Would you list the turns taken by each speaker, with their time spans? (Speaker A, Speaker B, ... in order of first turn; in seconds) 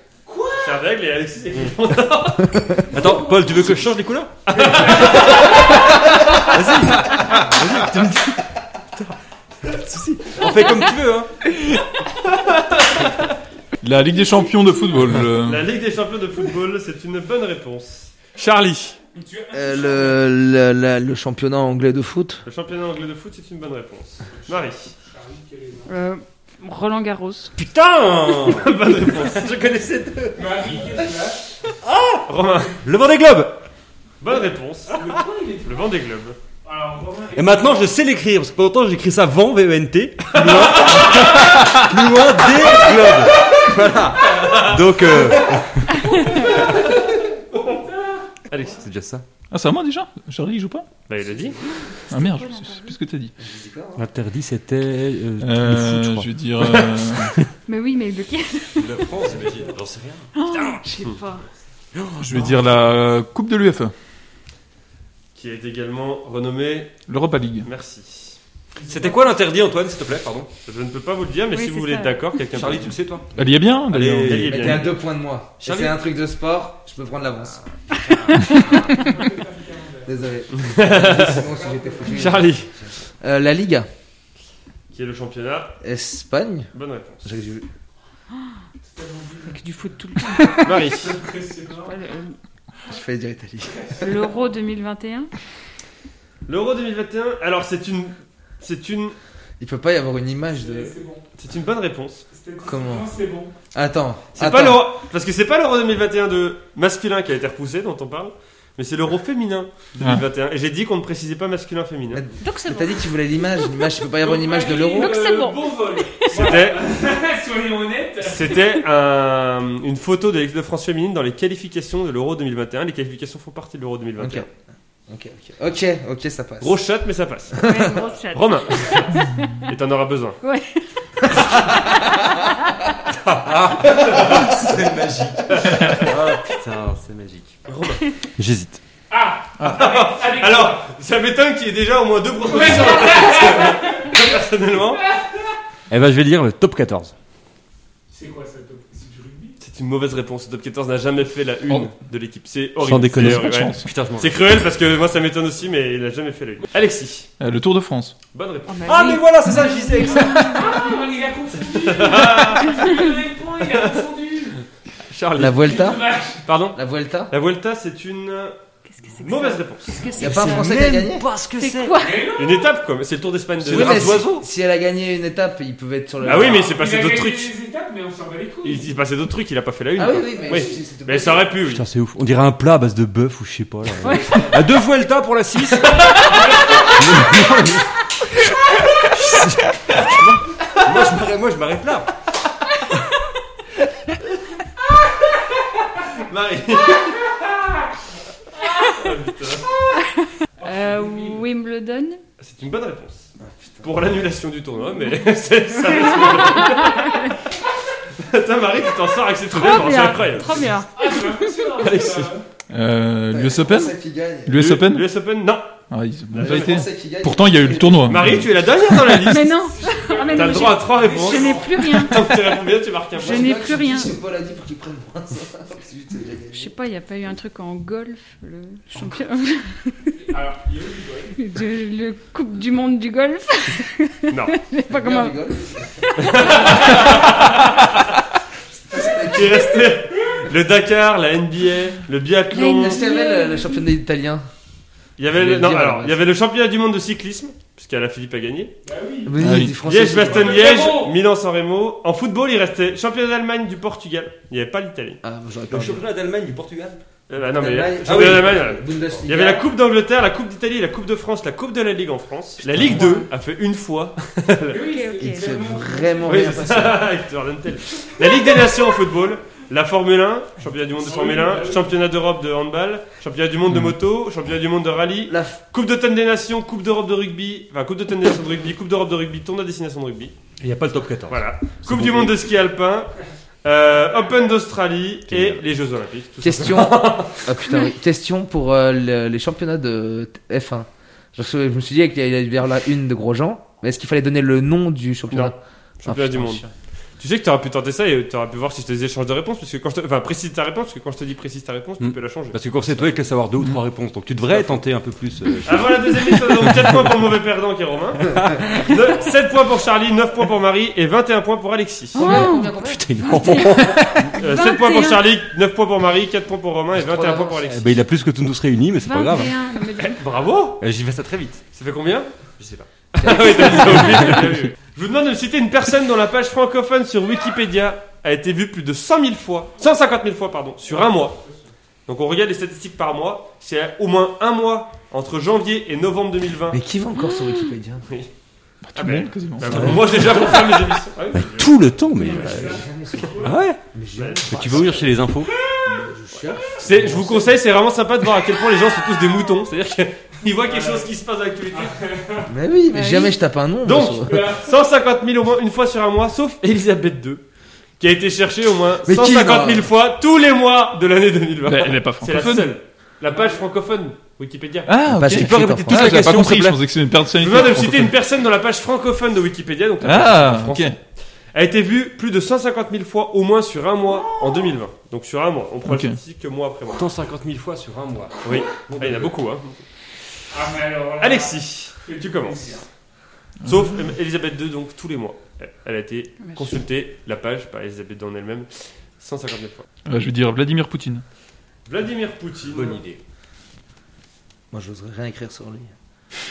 Speaker A: 0.2-0.8, 2.9-3.7, 4.5-5.8, 19.1-20.2, 24.3-25.9, 30.4-31.5, 34.9-35.9, 36.6-37.9, 46.6-46.9, 47.5-48.6, 59.3-59.7, 68.8-69.2, 78.8-80.2, 81.2-82.4, 88.9-89.6, 90.5-92.0, 93.7-94.5, 100.5-101.2, 102.3-103.5, 114.2-118.6, 139.1-140.8, 142.5-144.2, 148.1-149.6, 160.5-164.6, 165.5-166.5, 172.0-172.5, 176.3-178.8, 200.6-201.4, 210.9-212.4, 219.5-222.0, 230.2-231.4, 248.8-249.4, 250.1-251.2, 264.7-266.5, 271.0-272.0, 342.2-343.6, 345.5-346.0, 350.6-351.1, 351.7-352.5, 354.2-354.7, 363.3-363.6, 380.5-382.9
Speaker B: 0.6-2.7, 4.5-5.7, 12.3-13.3, 15.4-19.0, 22.5-24.9, 28.4-29.6, 32.3-32.8, 34.2-35.0, 35.6-36.4, 40.4-41.1, 44.4-44.8, 48.5-48.8, 51.1-51.6, 65.3-67.0, 67.6-68.4, 70.7-73.0, 74.3-74.9, 80.5-81.4, 82.1-82.7, 84.9-85.8, 86.7-87.3, 90.6-91.2, 96.5-99.2, 101.4-102.3, 104.3-112.2, 116.3-116.8, 118.2-124.5, 126.6-130.4, 134.0-134.5, 135.5-136.2, 139.6-145.0, 149.6-157.3, 158.3-159.0, 161.7-162.9, 165.1-165.9, 166.4-168.6, 169.2-170.1, 172.3-174.3, 176.2-177.5, 178.6-181.8, 190.0-190.4, 196.1-197.2, 198.8-199.7, 202.4-203.3, 203.8-207.3, 208.2-210.7, 211.8-212.3, 214.5-215.8, 216.3-216.8, 218.1-219.6, 220.3-223.5, 234.3-234.6, 236.2-238.0, 239.1-243.0, 245.2-248.7, 249.8-255.2, 257.3-264.8, 266.2-280.3, 281.3-283.1, 283.6-287.4, 295.3-296.6, 297.2-303.1, 305.6-312.3, 314.3-317.9, 320.1-320.8, 321.7-322.3, 323.1-331.4, 332.1-336.8, 338.9-341.8, 344.2-345.1, 346.8-351.9, 353.8-357.4, 358.0-364.9, 367.4-371.0, 371.5-377.1, 378.4-379.8, 381.2-382.6, 383.6-389.9, 391.9-393.0
Speaker C: 2.5-2.8, 19.5-22.4, 53.4-54.1, 74.4-77.6, 80.1-83.9, 85.8-86.7, 87.2-87.7, 92.9-94.0, 99.6-101.0, 102.6-103.1, 103.7-104.9, 112.1-115.2, 124.2-124.5, 125.1-126.8, 127.6-128.0, 165.4-166.1, 166.7-167.3, 170.2-171.3, 173.7-176.7, 180.0-181.5, 184.0-184.6, 203.4-203.9, 213.3-214.6, 216.4-218.2, 223.2-226.7, 234.9-236.5, 238.8-239.9, 242.8-244.4, 245.3-246.2, 249.2-250.8, 255.2-256.0, 257.4-259.7, 265.2-267.1, 275.3-275.6, 286.4-296.7, 312.2-313.3, 317.0-317.6, 323.2-324.0, 336.7-338.1, 339.8-340.3, 342.2-345.1, 345.8-347.6, 352.5-354.5, 359.1-359.9, 365.1-366.3, 394.7-395.9
Speaker D: 2.9-4.3, 6.4-8.4, 10.2-11.3, 27.6-30.7, 31.8-32.3, 32.8-33.6, 37.4-46.2, 48.8-49.2, 54.0-57.5, 58.8-60.8, 62.0-62.5, 68.9-70.5, 72.5-74.9, 75.6-76.0, 133.4-137.6, 138.4-138.8, 145.9-147.1, 152.9-154.3, 158.8-160.7, 170.4-172.1, 173.7-174.4, 181.8-186.0, 186.9-187.9, 189.0-190.0, 190.7-192.1, 255.7-257.0, 258.0-258.6, 280.6-282.4, 285.3-285.6, 302.0-306.9, 308.4-308.9, 312.3-314.4, 317.7-319.6, 320.8-321.6, 322.6-322.9, 339.8-340.6, 341.3-342.9, 343.4-343.8, 344.5-345.5, 365.3-366.8, 376.9-379.3, 392.7-393.2
Speaker E: 13.8-15.7, 49.5-50.9, 52.1-53.3, 55.4-57.4, 62.2-63.9, 67.1-67.7, 73.3-74.5, 152.9-153.9, 157.4-158.2, 212.7-213.9, 214.5-215.1, 215.9-219.2, 249.4-249.8, 338.8-340.2, 361.7-362.7, 364.9-368.1, 370.0-371.0, 375.9-376.2, 383.6-383.9, 390.1-391.2
Speaker F: 25.9-27.5, 46.1-46.5, 52.1-53.0, 57.7-59.1, 60.4-61.5, 71.5-72.4, 77.9-79.0, 89.5-90.8, 91.8-92.4, 94.0-95.3, 112.4-113.9, 114.9-116.6, 127.6-129.7, 130.4-132.9, 158.7-161.0, 168.9-172.5, 184.0-184.6, 200.0-202.2, 205.8-207.3, 209.5-211.9, 219.2-222.4, 223.2-224.1, 226.5-230.1, 231.4-237.5, 242.5-243.8, 262.9-263.3, 264.8-265.8, 312.1-315.3, 319.0-320.3, 352.9-353.4, 386.4-386.7